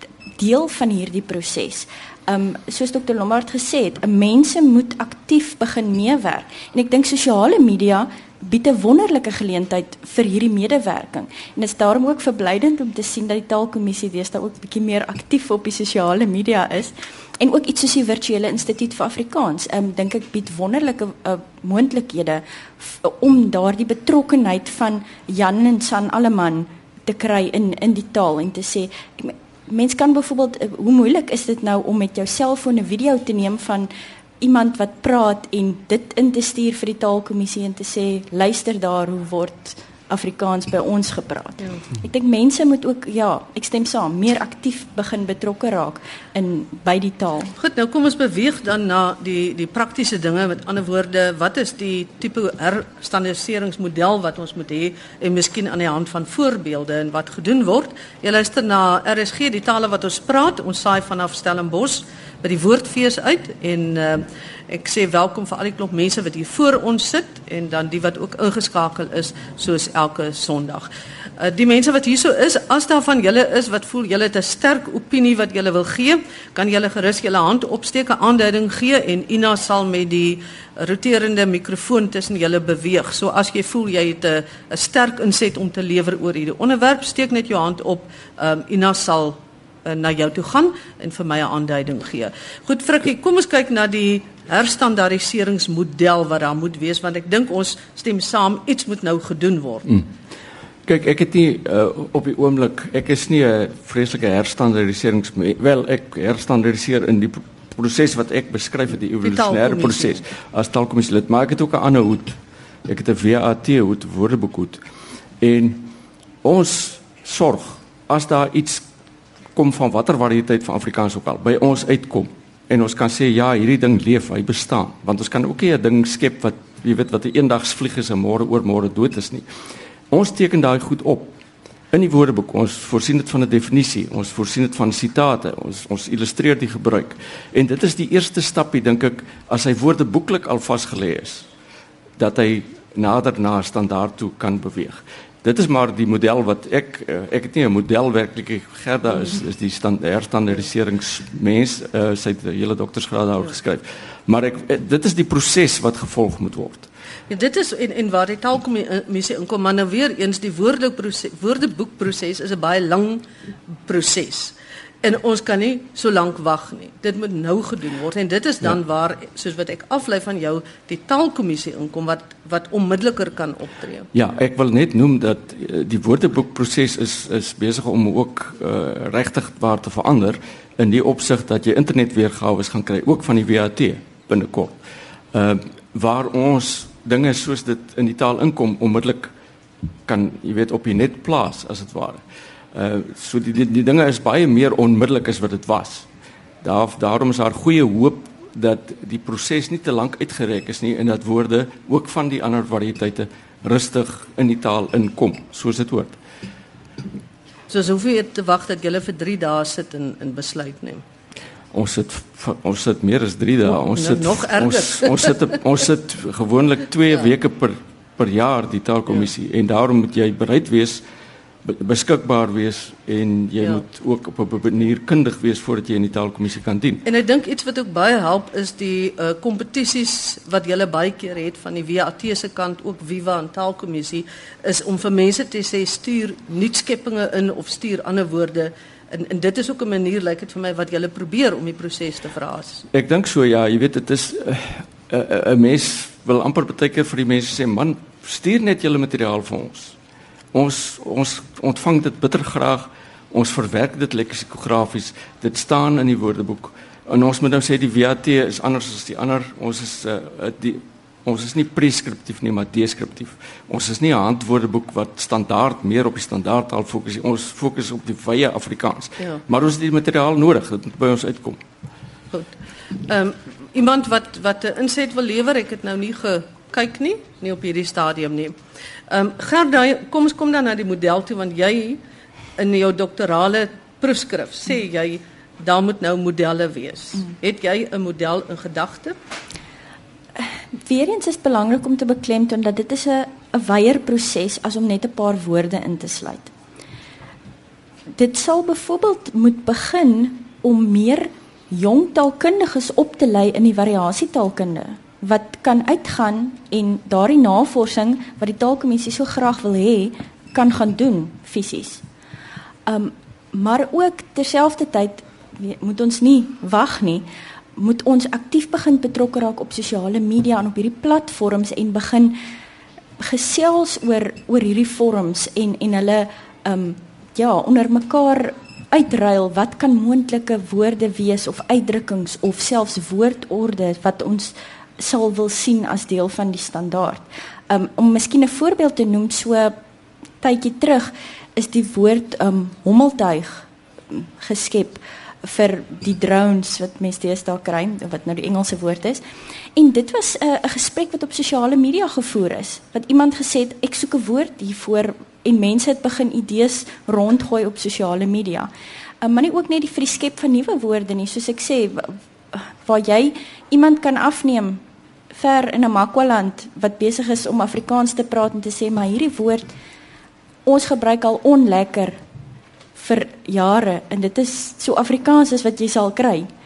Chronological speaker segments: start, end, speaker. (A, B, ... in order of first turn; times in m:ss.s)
0:00.4-0:47.5 A
0:47.6-1:40.0 B
1:40.9-1:54.8 C
1:49.2-1:50.2 B
1:55.4-1:55.9 C
1:56.4-1:58.9 C
1:59.6-2:09.5 C
2:10.1-2:11.4 C
2:11.9-2:21.5 C
2:22.2-2:36.9 C
2:37.3-2:43.2 B
2:43.8-2:54.1 B
2:54.1-3:04.8 C
3:05.3-3:09.3 C
3:10.1-3:12.2 C
3:12.7-3:16.1 C
3:16.6-3:26.2 C
3:27.7-3:31.0 B
3:31.7-3:41.0 C
3:33.7-3:35.4 B
3:41.6-3:47.0 C
3:47.1-4:02.9 B
4:02.9-4:10.0 C
4:10.5-4:31.6 C
4:32.3-4:38.6 B
4:39.1-4:42.0 B
4:42.6-4:49.2 B
4:50.4-4:56.5 A
4:58.1-5:12.0 A
5:12.9-5:22.4 A
5:23.2-5:39.8 A
5:40.4-5:49.2 A
5:49.8-5:58.7 A
5:59.2-6:04.8 A
6:05.3-6:09.7 A
6:10.7-6:12.2 A
6:13.0-6:16.5 A